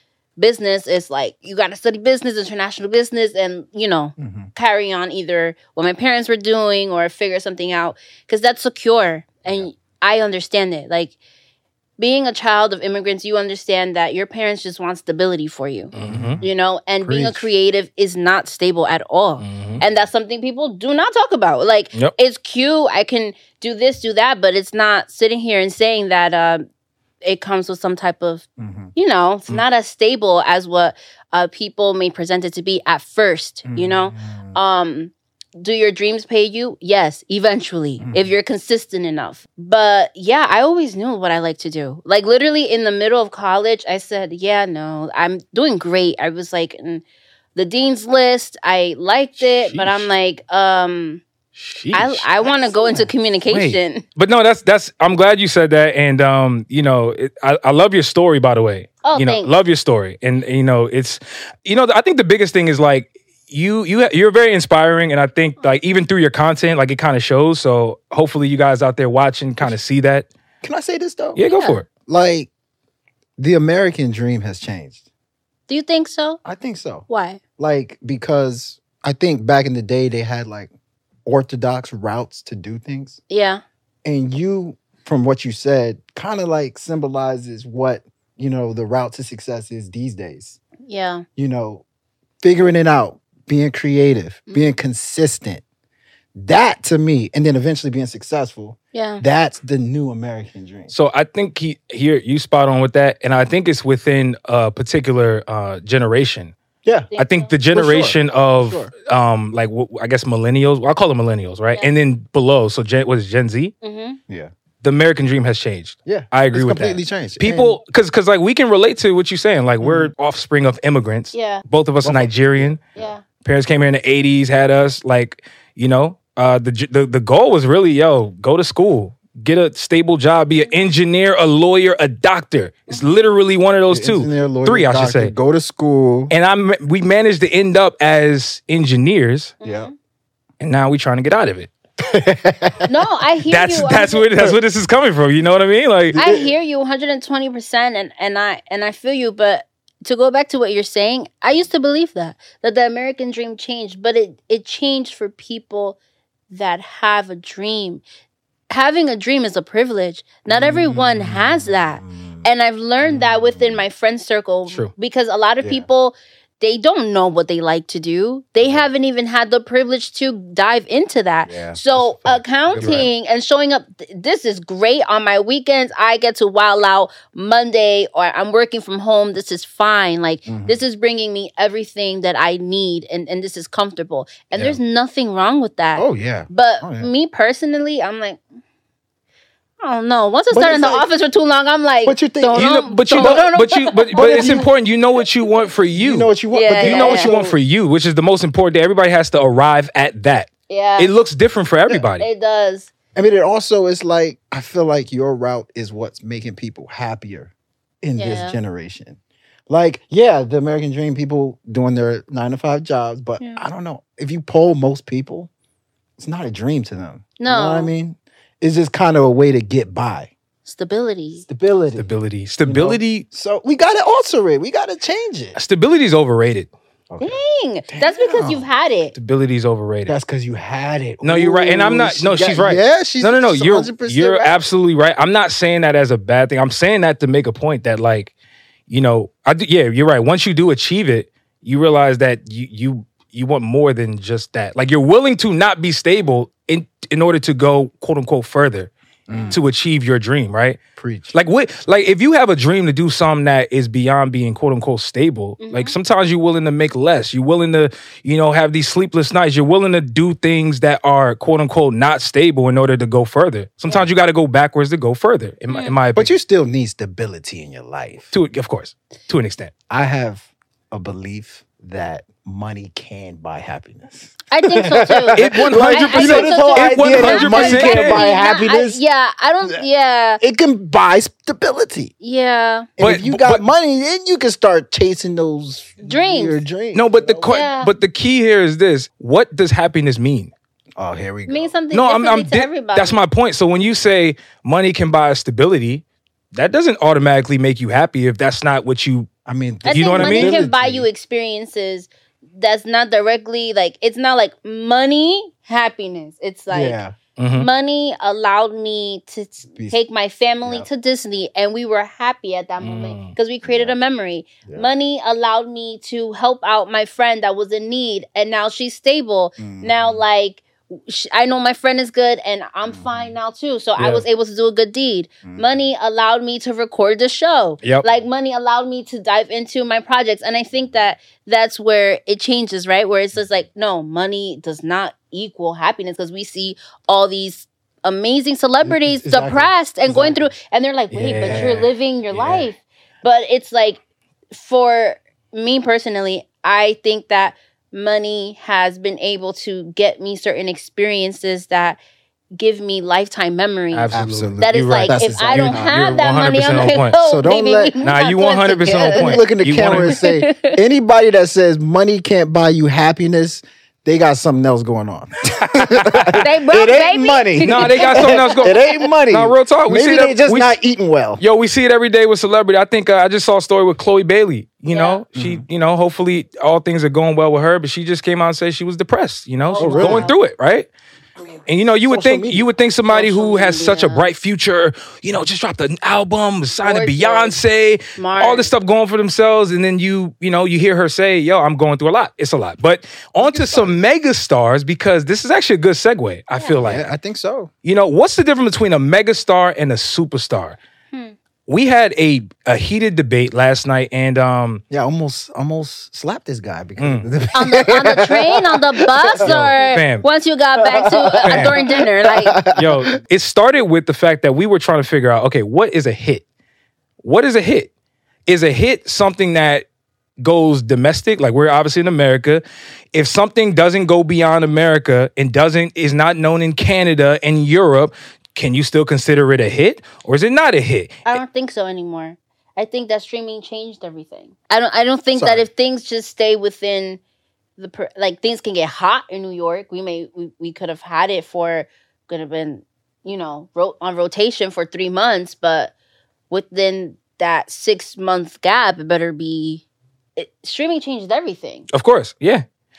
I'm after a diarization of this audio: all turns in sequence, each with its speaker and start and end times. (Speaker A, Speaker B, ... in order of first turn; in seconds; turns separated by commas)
Speaker A: 0.4-11.2, Speaker B: 4.2-4.5, Speaker A: 12.0-26.6, Speaker C: 15.9-16.4, Speaker B: 16.0-16.5, Speaker B: 17.0-17.5, Speaker C: 19.4-19.8, Speaker A: 27.2-47.0, Speaker B: 28.6-28.9, Speaker B: 33.6-34.6, Speaker B: 38.0-38.3, Speaker A: 47.5-51.2, Speaker C: 49.4-50.1, Speaker C: 51.5-52.2, Speaker A: 51.9-54.0, Speaker B: 52.4-53.1, Speaker C: 53.5-70.3, Speaker A: 59.0-59.5, Speaker B: 70.6-71.4, Speaker C: 71.3-71.9, Speaker A: 71.4-71.8, Speaker B: 72.0-72.5, Speaker B: 73.4-75.0, Speaker A: 75.7-76.4, Speaker B: 76.4-80.7, Speaker A: 77.1-77.4, Speaker B: 81.2-83.2, Speaker A: 83.3-83.6, Speaker B: 84.0-90.6, Speaker A: 90.8-91.2, Speaker B: 91.3-91.8, Speaker B: 92.4-95.6, Speaker A: 94.5-94.7, Speaker B: 96.3-100.9, Speaker A: 98.9-99.2, Speaker C: 100.9-106.5, Speaker B: 106.8-107.1, Speaker A: 107.1-107.5, Speaker C: 107.2-113.7, Speaker B: 107.7-108.9, Speaker A: 113.8-114.2, Speaker C: 114.8-122.8, Speaker B: 116.0-117.8, Speaker B: 119.8-120.1, Speaker A: 121.3-121.6, Speaker B: 122.0-123.1, Speaker A: 122.9-123.2, Speaker C: 123.4-135.3, Speaker B: 133.9-136.3, Speaker C: 136.3-139.5, Speaker A: 139.6-139.9, Speaker B: 139.6-139.9, Speaker C: 140.6-141.7, Speaker B: 142.0-142.9, Speaker A: 142.8-144.3, Speaker C: 143.5-146.2, Speaker B: 146.1-146.5, Speaker A: 146.1-156.0, Speaker A: 156.5-158.0, Speaker A: 158.7-188.4, Speaker B: 160.5-162.5, Speaker B: 163.0-163.8, Speaker B: 171.4-173.1, Speaker C: 172.8-173.1, Speaker B: 180.4-180.8, Speaker B: 185.9-187.1, Speaker A: 189.8-194.7, Speaker B: 190.5-191.1, Speaker B: 192.0-193.4, Speaker C: 192.5-202.3, Speaker B: 194.1-194.7, Speaker B: 195.9-197.5, Speaker A: 196.5-197.5, Speaker A: 200.7-201.1, Speaker A: 202.1-202.9, Speaker B: 203.1-207.5, Speaker B: 208.0-209.2, Speaker A: 208.2-208.6, Speaker B: 209.7-215.5, Speaker B: 216.2-220.3, Speaker A: 217.4-217.9, Speaker A: 220.6-221.4, Speaker B: 221.4-222.1, Speaker C: 221.9-223.2, Speaker B: 222.6-225.6, Speaker C: 225.6-226.7, Speaker B: 227.1-228.7, Speaker A: 227.2-229.1, Speaker C: 229.1-230.2, Speaker B: 230.1-234.5, Speaker C: 231.2-238.3, Speaker C: 238.9-248.9, Speaker B: 249.3-249.6, Speaker A: 249.3-249.6, Speaker C: 249.5-250.8, Speaker B: 251.0-251.3, Speaker C: 251.3-266.3, Speaker A: 255.6-255.9, Speaker A: 265.7-265.9, Speaker B: 266.1-268.3, Speaker C: 268.3-269.7, Speaker B: 269.9-279.0, Speaker A: 274.5-280.4, Speaker C: 275.3-278.2, Speaker B: 280.4-282.1, Speaker A: 282.2-282.9, Speaker B: 283.0-287.6, Speaker C: 283.0-283.6, Speaker A: 286.0-286.6, Speaker C: 286.9-290.5, Speaker A: 287.4-287.9, Speaker B: 291.0-291.7, Speaker A: 291.5-293.2, Speaker C: 291.9-299.3, Speaker B: 299.4-301.1, Speaker C: 299.8-300.6, Speaker A: 299.9-307.0, Speaker B: 306.7-307.1, Speaker C: 307.4-307.7, Speaker A: 307.6-344.0, Speaker C: 312.8-313.3, Speaker B: 313.6-313.9, Speaker B: 319.6-320.2, Speaker B: 322.8-323.3, Speaker C: 324.0-324.2, Speaker B: 325.4-325.7, Speaker B: 338.8-340.5, Speaker C: 341.1-341.9, Speaker B: 341.4-342.6, Speaker A: 344.5-352.0, Speaker A: 352.6-360.8, Speaker C: 353.9-357.1, Speaker B: 354.1-357.9, Speaker C: 358.0-360.1, Speaker B: 359.1-371.4, Speaker C: 365.7-366.4, Speaker A: 366.4-368.8, Speaker C: 367.6-370.8, Speaker C: 371.4-380.9, Speaker A: 374.9-375.2, Speaker B: 375.3-375.6, Speaker A: 379.7-380.4, Speaker B: 379.8-380.3, Speaker C: 381.7-397.1, Speaker B: 382.0-382.6, Speaker A: 383.1-384.3, Speaker A: 386.8-387.6, Speaker A: 388.1-388.7, Speaker B: 393.4-393.9, Speaker B: 396.8-397.7, Speaker C: 397.8-400.8, Speaker C: 401.7-404.8, Speaker B: 404.9-409.8, Speaker C: 407.0-407.3, Speaker A: 407.5-412.6, Speaker C: 409.4-410.2, Speaker B: 410.8-413.1, Speaker C: 411.4-411.8, Speaker C: 412.7-416.4, Speaker C: 417.2-417.9, Speaker C: 418.5-419.8, Speaker C: 420.4-422.6, Speaker C: 423.1-431.4, Speaker A: 431.2-437.2, Speaker B: 435.3-435.6, Speaker A: 437.8-445.9, Speaker A: 446.5-449.8, Speaker A: 450.4-451.9, Speaker C: 451.9-452.6